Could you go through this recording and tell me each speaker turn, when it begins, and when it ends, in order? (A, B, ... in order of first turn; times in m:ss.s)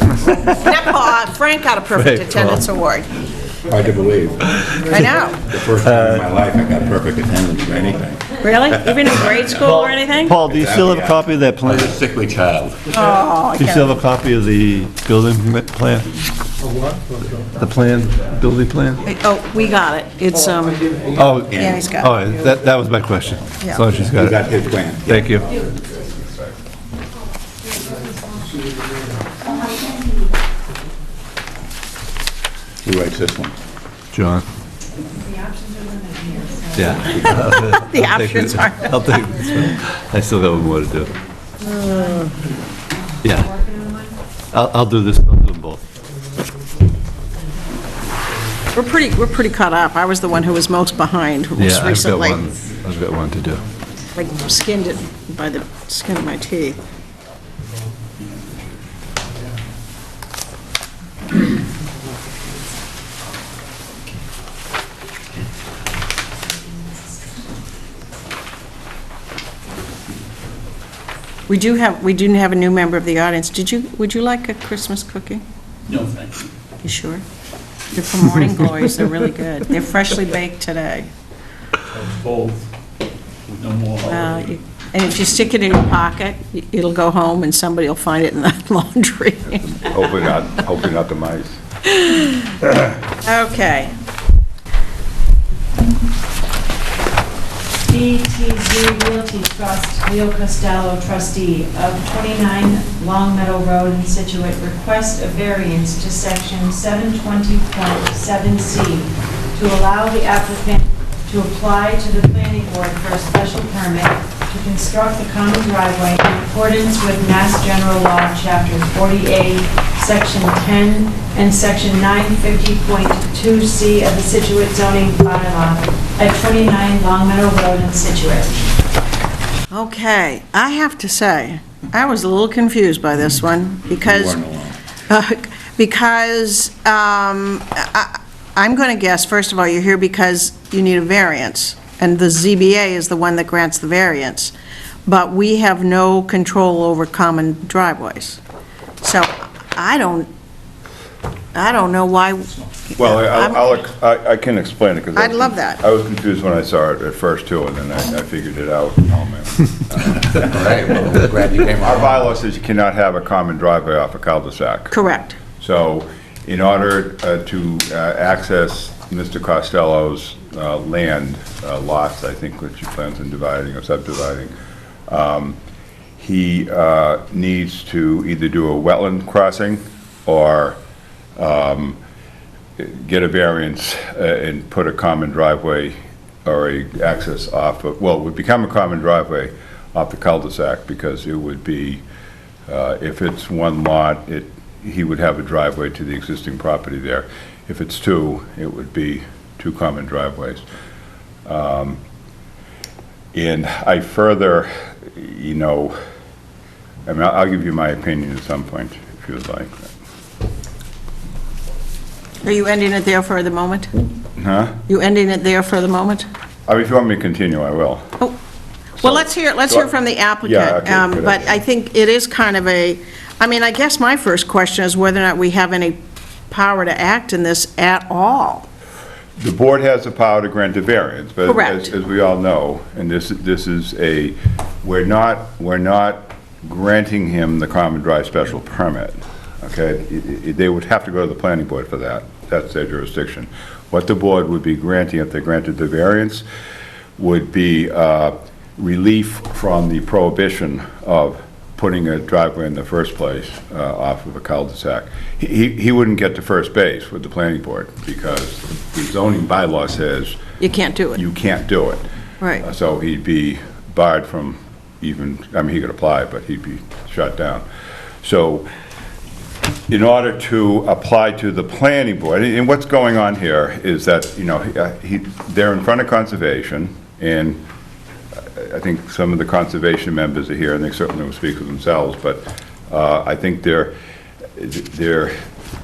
0:00.5-0:03.1 A
0:01.9-0:02.6 B
0:03.6-0:04.9 C
0:04.8-0:05.5 A
0:04.9-0:05.2 B
0:05.4-0:09.8 C
0:05.7-0:06.2 B
0:08.4-0:10.4 A
0:09.6-0:11.9 B
0:10.4-0:13.0 C
0:12.9-0:14.0 A
0:13.5-0:16.1 B
0:17.6-0:19.0 B
0:19.0-0:20.9 A
0:21.1-0:24.4 B
0:21.4-0:21.8 C
0:21.6-0:22.2 A
0:23.6-0:23.8 A
0:24.0-0:25.2 C
0:25.0-0:25.6 B
0:27.6-0:28.6 D
0:32.8-0:33.5 C
0:34.1-0:34.4 B
0:35.1-0:37.2 D
0:36.7-0:41.1 B
0:37.1-0:39.8 A
0:41.6-0:42.3 D
0:41.6-0:42.3 A
0:43.2-0:43.5 B
0:43.2-0:44.2 D
0:44.5-0:45.8 B
0:48.7-0:52.5 A
0:51.6-0:53.6 B
0:54.1-0:56.8 A
1:11.5-1:15.4 A
1:15.9-1:16.5 E
1:16.8-1:17.2 A
1:17.9-1:21.1 A
1:21.9-1:22.7 E
1:23.5-1:24.5 E
1:24.0-1:29.9 A
1:29.6-1:31.6 F
1:31.8-1:32.5 A
1:33.2-1:33.9 A
1:37.8-2:08.6 D
2:09.7-2:14.4 A
2:14.0-2:14.8 C
2:15.1-2:24.5 A
2:25.0-2:28.4 A
2:29.0-2:30.3 A
2:31.5-2:33.8 A
2:33.0-2:40.8 F
2:35.1-2:35.8 A
2:40.3-2:42.3 C
2:41.8-2:45.0 F
2:44.9-2:45.4 A
2:45.6-2:54.5 F
2:55.1-2:55.6 F
2:56.2-3:00.8 F
3:01.4-3:02.0 F
3:02.8-3:12.0 F
3:12.7-3:20.6 F
3:21.4-3:22.0 F
3:23.3-3:26.0 F
3:27.0-3:29.9 F
3:32.4-3:33.9 A
3:34.4-3:34.8 F
3:34.9-3:36.2 A
3:36.7-3:38.2 F
3:39.0-3:46.0 A
3:39.0-3:41.6 F
3:46.5-3:48.7 A
3:49.4-4:06.4 F
3:51.4-3:51.9 A
4:07.2-4:20.4 F
4:20.6-4:21.2 A
4:21.1-4:22.0 F
4:22.6-4:27.6 F
4:28.2-4:28.6 F
4:29.9-4:37.6 F
4:38.6-4:43.9 F
4:44.6-4:45.3 F